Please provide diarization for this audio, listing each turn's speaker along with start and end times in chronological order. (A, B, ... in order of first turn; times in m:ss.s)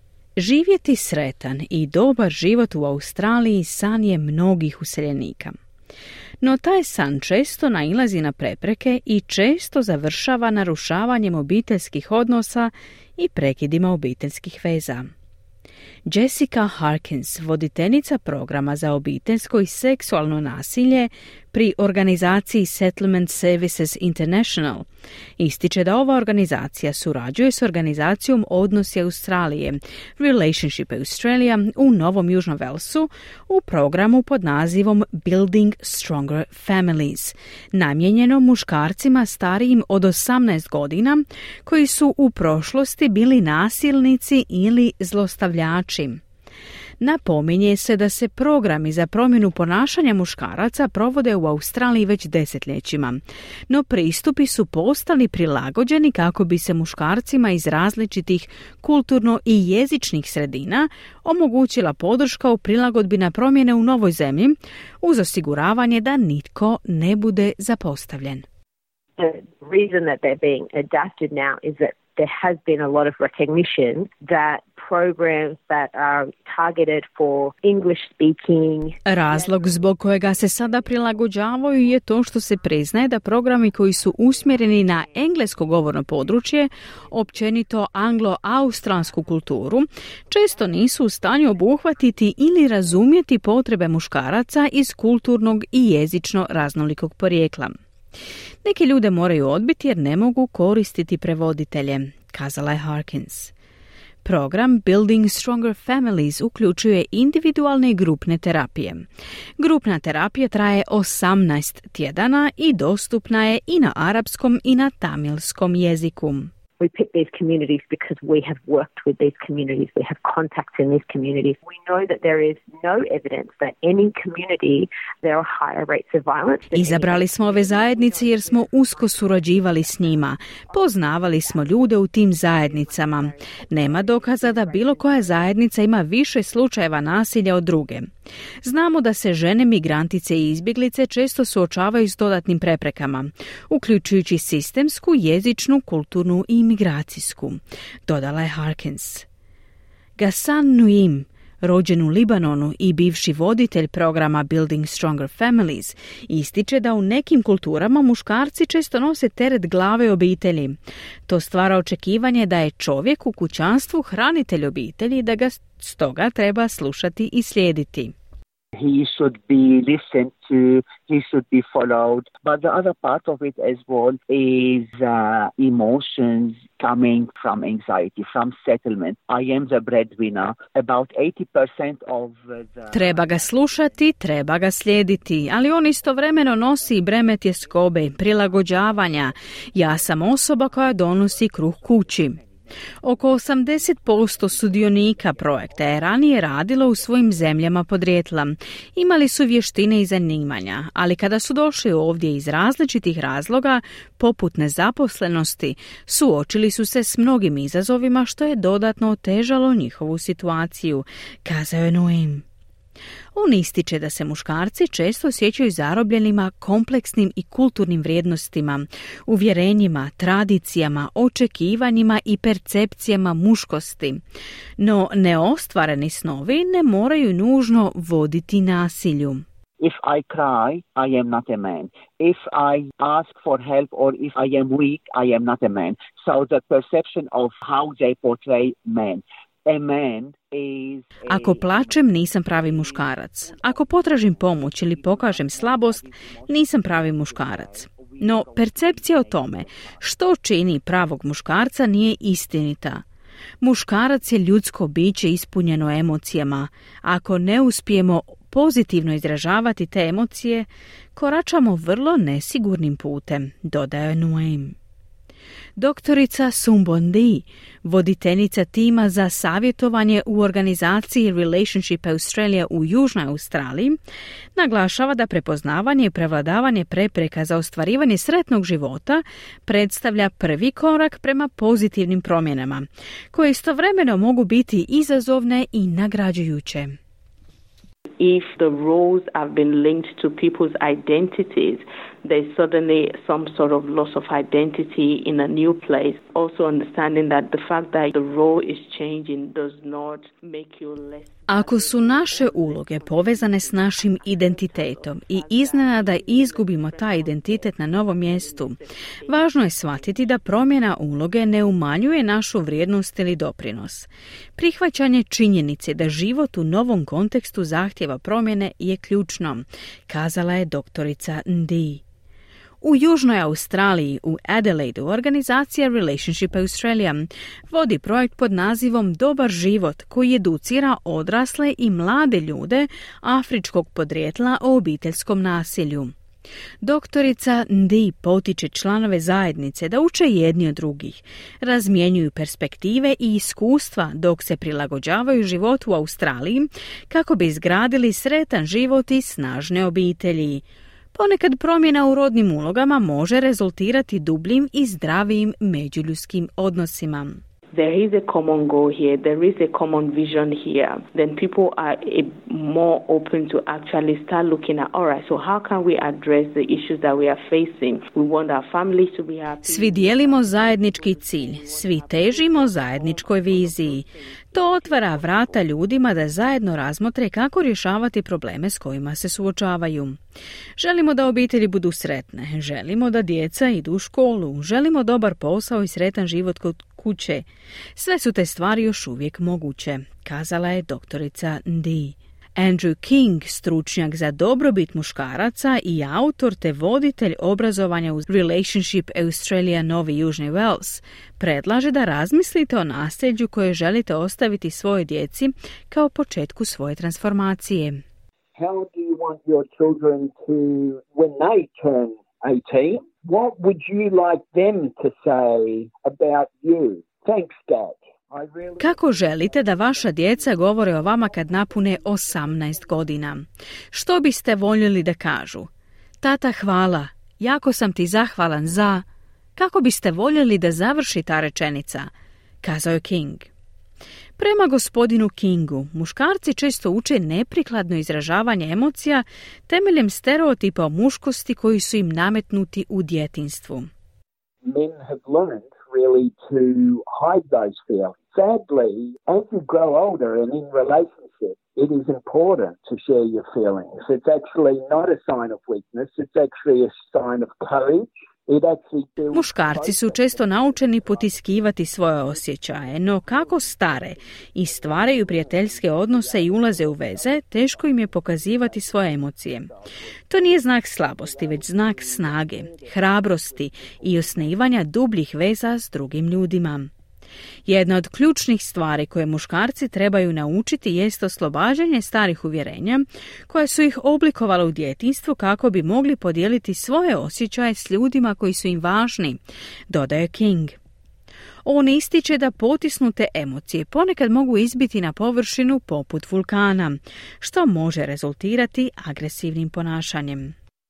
0:00.4-0:05.6 A
0:06.4-0:15.1 A
0:16.1-0:24.9 A
0:25.4-0:46.2 A
0:47.0-1:08.4 A
1:09.2-1:19.0 B
1:19.1-1:37.8 A
1:38.6-1:43.5 A
1:44.2-1:49.1 A
1:49.6-1:56.5 A
1:56.8-2:08.5 B
2:06.7-2:29.3 A
2:12.6-2:13.5 B
2:14.5-2:15.0 B
2:30.2-2:48.1 A
2:48.8-3:04.0 C
3:02.9-3:12.4 A
3:11.2-3:12.6 C
3:13.0-3:32.4 A
3:15.4-3:16.0 C
3:33.4-3:44.2 A
3:44.8-3:49.4 A
3:49.8-4:10.0 C
4:01.3-4:13.0 A
4:13.6-4:24.8 A
4:25.8-4:34.0 A
4:34.6-4:47.0 A
4:48.2-5:10.5 D
5:01.5-5:22.0 A
5:22.8-5:36.1 A
5:36.8-5:50.6 A
5:51.1-5:57.4 A
5:57.7-6:15.6 D
6:09.6-6:20.2 A
6:20.8-6:27.4 A
6:28.0-6:48.0 A
6:48.6-7:03.1 E
6:58.8-7:05.7 A
7:06.2-7:09.0 A
7:09.6-7:12.1 A
7:12.6-7:13.5 A
7:14.4-7:23.9 A
7:24.6-7:54.7 E
7:39.3-7:49.7 A
7:50.3-7:56.9 A
7:57.7-8:10.8 A
8:11.7-8:20.6 A